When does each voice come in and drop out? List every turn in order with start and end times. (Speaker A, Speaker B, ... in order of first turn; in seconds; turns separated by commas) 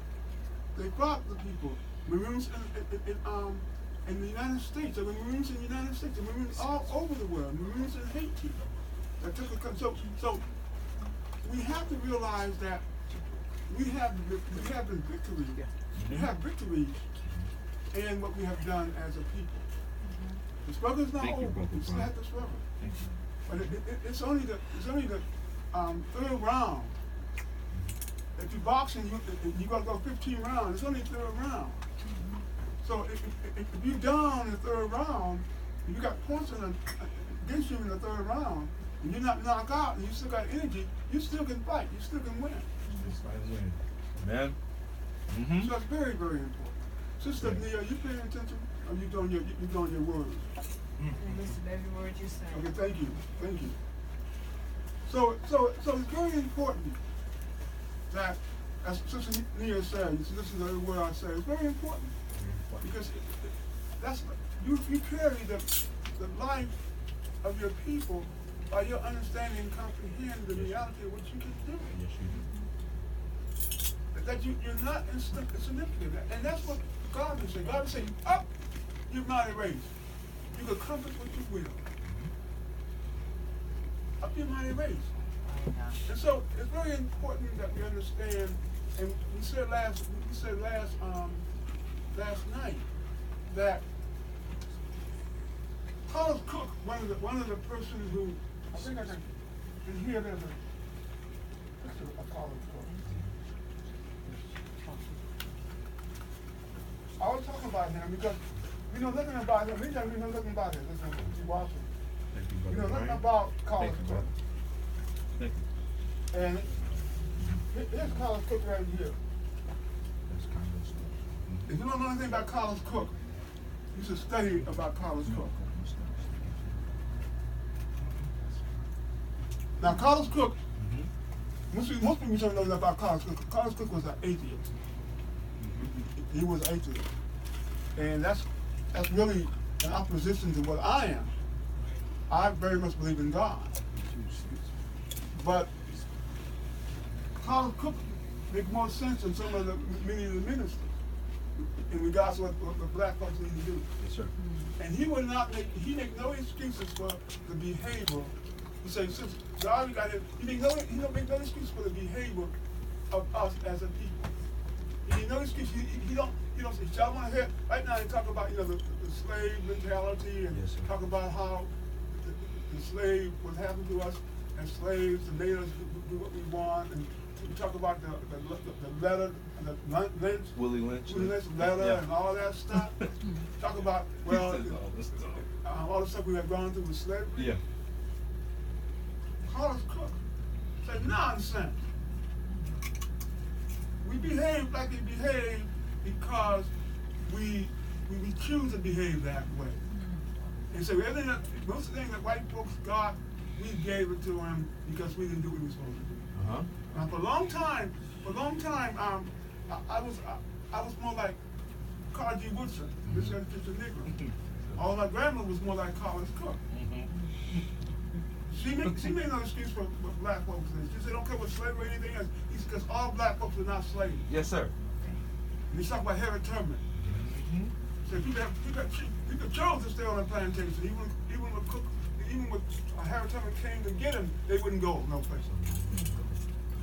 Speaker A: 0.7-10.4, Speaker A: 11.4-12.9, Speaker A: 13.7-17.0, Speaker B: 15.9-16.3, Speaker B: 17.2-17.5, Speaker A: 17.9-19.7, Speaker C: 20.0-20.4, Speaker A: 20.6-22.6, Speaker B: 21.2-22.1, Speaker B: 22.8-23.2, Speaker A: 23.4-26.9, Speaker B: 27.7-28.0, Speaker A: 28.4-31.8, Speaker C: 32.0-32.4, Speaker A: 32.8-42.7, Speaker B: 42.9-44.6, Speaker B: 45.3-45.7, Speaker A: 45.6-50.5, Speaker B: 47.4-47.6, Speaker B: 51.0-51.4, Speaker C: 51.1-53.5, Speaker A: 52.5-53.8, Speaker A: 55.0-57.0, Speaker A: 58.1-62.1, Speaker B: 62.3-62.9, Speaker A: 62.8-66.8, Speaker A: 67.4-71.9, Speaker B: 70.5-70.9, Speaker B: 71.8-72.5, Speaker C: 72.3-72.7, Speaker A: 74.1-78.5, Speaker A: 79.1-79.9, Speaker A: 80.5-81.8, Speaker B: 82.0-82.3, Speaker A: 84.2-85.1, Speaker C: 85.4-86.0, Speaker A: 86.0-91.4, Speaker A: 92.1-92.9, Speaker A: 93.4-93.8, Speaker A: 96.0-99.3, Speaker A: 99.8-100.6, Speaker A: 101.8-103.0, Speaker B: 103.0-103.3, Speaker A: 107.2-111.9, Speaker B: 112.3-114.3, Speaker A: 112.7-114.3, Speaker B: 115.3-115.7, Speaker A: 116.3-116.8, Speaker B: 116.9-117.6, Speaker A: 117.7-119.2, Speaker B: 120.3-121.7, Speaker A: 121.7-123.1, Speaker B: 123.0-123.3, Speaker A: 123.9-125.5, Speaker B: 125.2-126.8, Speaker A: 129.8-130.6, Speaker B: 130.7-131.1, Speaker A: 131.7-134.7, Speaker B: 135.6-136.1, Speaker A: 136.1-137.1, Speaker A: 137.9-141.3, Speaker A: 142.3-143.8, Speaker B: 143.9-144.7, Speaker A: 145.3-145.7, Speaker A: 147.4-150.9, Speaker A: 151.6-153.9, Speaker B: 154.0-154.3, Speaker C: 154.3-154.7, Speaker A: 154.8-162.5, Speaker A: 163.1-164.3, Speaker A: 165.0-184.8, Speaker B: 170.5-170.9, Speaker B: 180.5-182.1, Speaker B: 182.7-183.1, Speaker B: 184.2-185.5, Speaker A: 185.5-187.6, Speaker B: 187.3-187.6, Speaker A: 189.4-190.2, Speaker A: 190.8-191.8, Speaker A: 194.0-196.7, Speaker A: 197.2-199.8, Speaker C: 199.8-200.3, Speaker A: 200.7-206.3, Speaker B: 206.3-206.7, Speaker A: 206.8-211.4, Speaker A: 212.1-216.6, Speaker B: 213.1-213.3, Speaker B: 216.7-217.1, Speaker A: 218.5-224.3, Speaker B: 224.3-224.7, Speaker C: 224.9-225.2, Speaker A: 225.7-226.8, Speaker B: 227.0-227.7, Speaker A: 228.0-235.5, Speaker B: 235.4-236.4